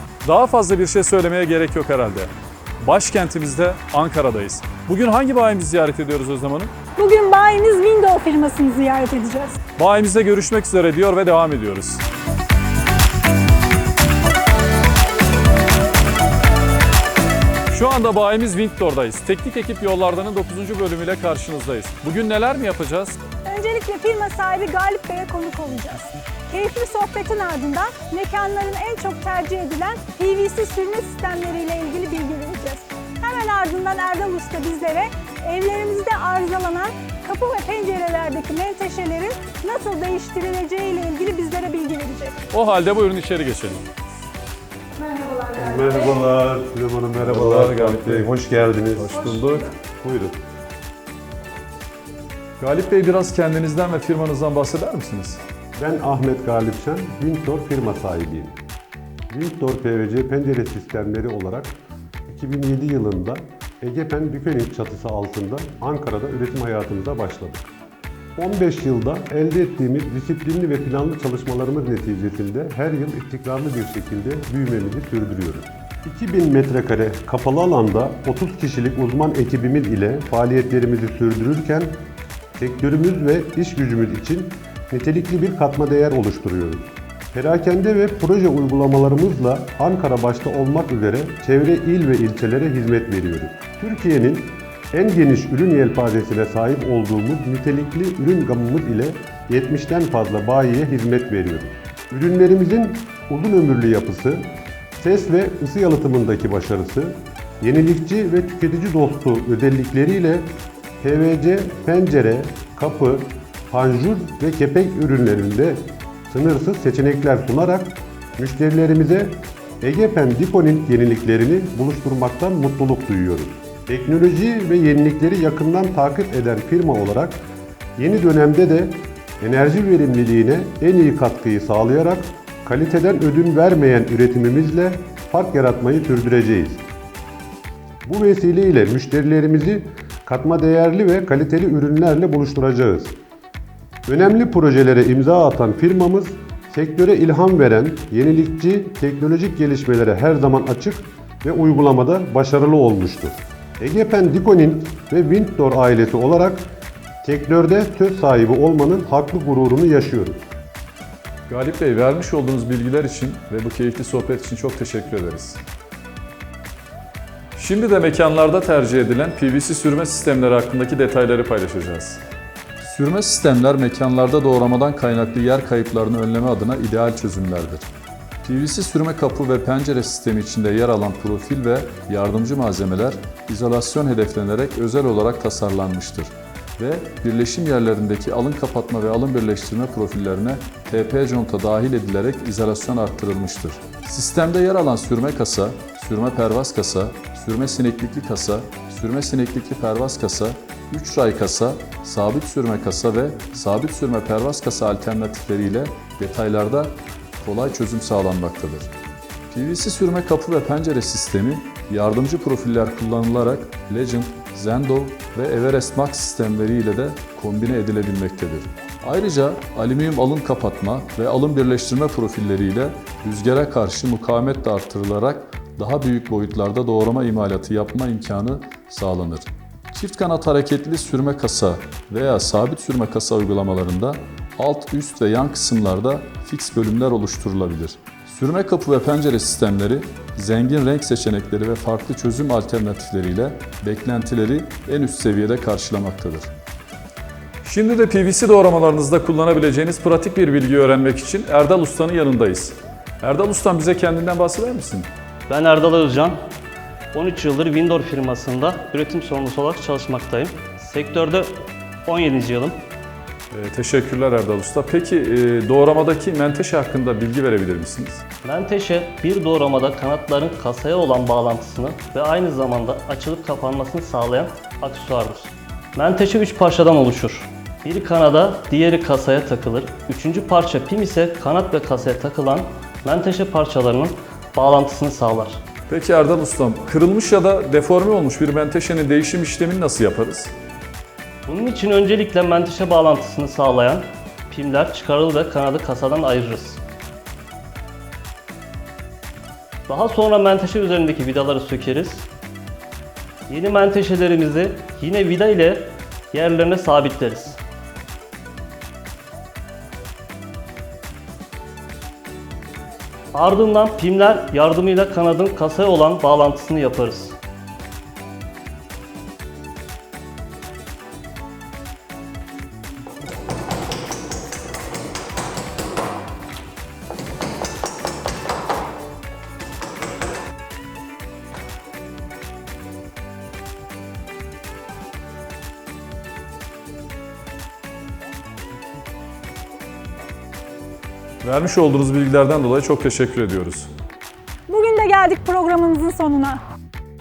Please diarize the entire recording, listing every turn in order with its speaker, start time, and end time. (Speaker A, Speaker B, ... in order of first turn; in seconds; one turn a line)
Speaker A: 0.2-6.7
Speaker B: 7.0-9.6
Speaker A: 9.8-12.0
Speaker A: 17.7-23.2
Speaker B: 23.4-42.3
Speaker A: 42.5-43.8
Speaker B: 45.0-45.5
Speaker C: 45.5-50.4
Speaker A: 47.2-49.7
Speaker A: 52.6-55.4
Speaker C: 55.8-58.6
Speaker C: 59.3-61.7
Speaker C: 62.3-67.7
Speaker C: 68.4-82.0
Speaker C: 82.5-110.5
Speaker C: 111.0-127.4
Speaker C: 128.0-136.8
Speaker C: 138.0-143.2
Speaker C: 144.1-156.7
Speaker C: 157.2-160.4
Speaker A: 161.5-165.6
Speaker A: 167.5-172.2
Speaker A: 172.8-177.9
Speaker A: 178.4-208.9
Speaker A: 209.5-246.5
Speaker A: 247.6-255.1
Speaker D: 255.5-256.4
Speaker D: 257.1-261.5
Speaker D: 262.1-262.7
Speaker A: 263.5-268.2
Speaker D: 268.5-285.6
Speaker A: 285.9-290.5
Speaker D: 291.5-296.8
Speaker D: 299.9-302.2
Speaker D: 303.5-307.6
Speaker D: 313.3-317.4
Speaker A: 341.4-343.9
Speaker B: 344.7-346.6